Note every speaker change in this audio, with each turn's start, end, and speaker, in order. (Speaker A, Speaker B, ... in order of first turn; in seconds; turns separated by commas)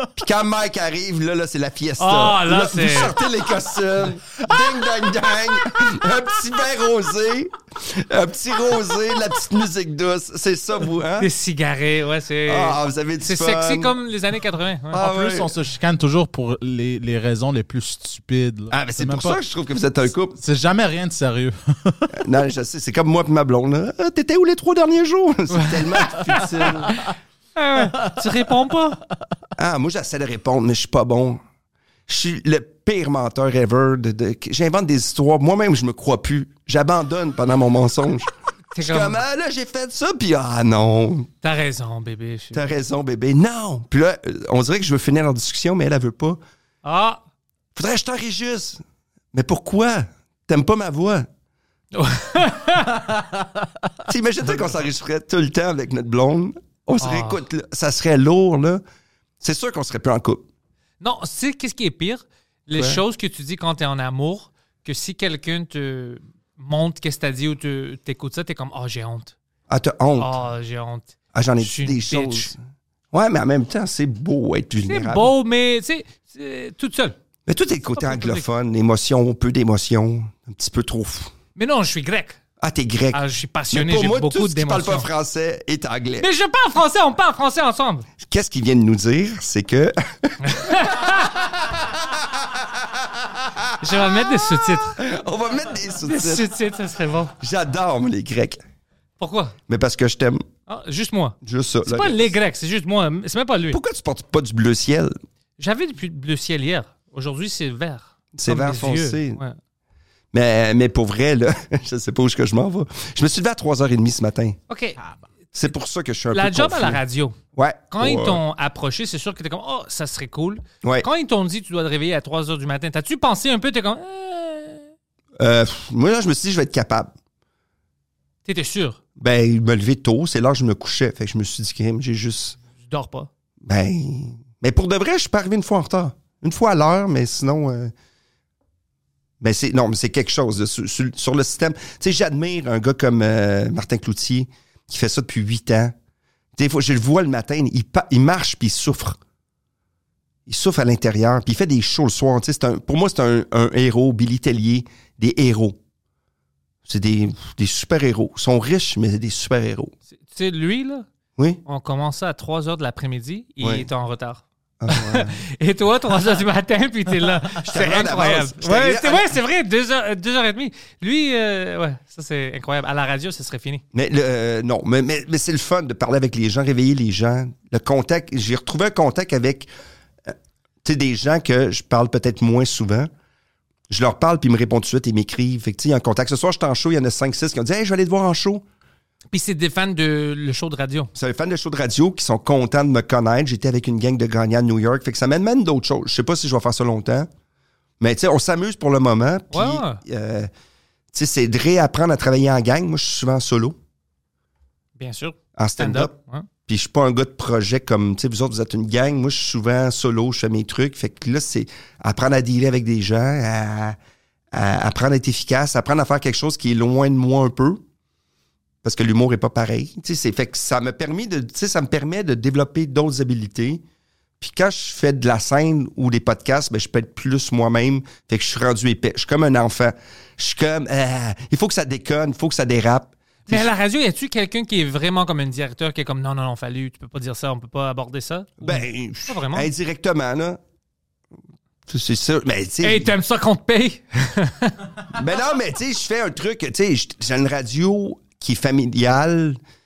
Speaker A: 0.1-11.3, Speaker B: 2.0-3.1, Speaker B: 11.2-15.2, Speaker A: 12.5-13.9, Speaker A: 14.9-15.5, Speaker C: 15.1-19.4, Speaker A: 18.7-20.4, Speaker C: 20.4-22.2, Speaker A: 22.1-27.0, Speaker B: 25.5-29.0, Speaker A: 29.6-31.4, Speaker A: 32.1-41.3, Speaker B: 38.7-39.2, Speaker B: 41.4-42.7, Speaker A: 42.5-46.4, Speaker B: 46.8-47.2, Speaker A: 47.8-48.8, Speaker A: 49.3-51.3, Speaker B: 51.9-53.0, Speaker A: 54.0-58.8, Speaker B: 57.0-57.4, Speaker A: 59.4-60.5, Speaker B: 61.0-69.3, Speaker A: 62.7-63.0, Speaker A: 69.7-70.3, Speaker B: 70.2-72.5, Speaker A: 71.3-72.6, Speaker A: 73.1-75.3, Speaker B: 74.8-77.2, Speaker A: 77.5-81.3, Speaker B: 77.9-78.4, Speaker B: 81.5-82.4, Speaker A: 82.6-86.3, Speaker B: 83.1-85.1, Speaker B: 86.2-88.1, Speaker A: 88.2-96.5, Speaker B: 90.4-91.5, Speaker B: 93.8-95.0, Speaker B: 96.0-97.3, Speaker A: 97.4-98.6, Speaker B: 99.2-99.6, Speaker A: 99.7-100.4, Speaker B: 100.7-103.8, Speaker A: 101.4-102.3, Speaker A: 103.7-105.2, Speaker B: 105.6-109.6, Speaker A: 108.3-109.4, Speaker A: 110.3-114.6, Speaker B: 114.7-115.0, Speaker A: 115.5-117.0, Speaker B: 116.3-117.3, Speaker A: 117.5-118.4, Speaker B: 117.9-124.9, Speaker A: 125.4-127.1, Speaker B: 128.4-129.0, Speaker A: 129.2-132.6, Speaker B: 132.8-133.3, Speaker A: 133.6-137.9, Speaker A: 139.4-145.9, Speaker A: 146.6-149.2, Speaker A: 150.5-155.8, Speaker A: 156.8-159.9, Speaker B: 160.2-161.1, Speaker B: 161.7-173.8, Speaker A: 163.6-163.9, Speaker A: 164.8-165.4, Speaker A: 167.6-169.3, Speaker A: 173.9-179.7, Speaker A: 180.3-183.1, Speaker A: 183.9-188.7, Speaker B: 189.3-191.1, Speaker A: 191.2-197.3, Speaker A: 198.0-200.5, Speaker B: 199.5-200.0, Speaker A: 201.1-203.8, Speaker B: 205.0-206.5, Speaker A: 205.6-206.2, Speaker A: 206.7-214.0, Speaker A: 214.5-217.8, Speaker A: 218.8-223.8, Speaker A: 224.4-233.7, Speaker B: 233.5-239.7, Speaker A: 238.6-240.6, Speaker A: 241.9-243.1, Speaker B: 242.8-244.8, Speaker A: 245.1-249.6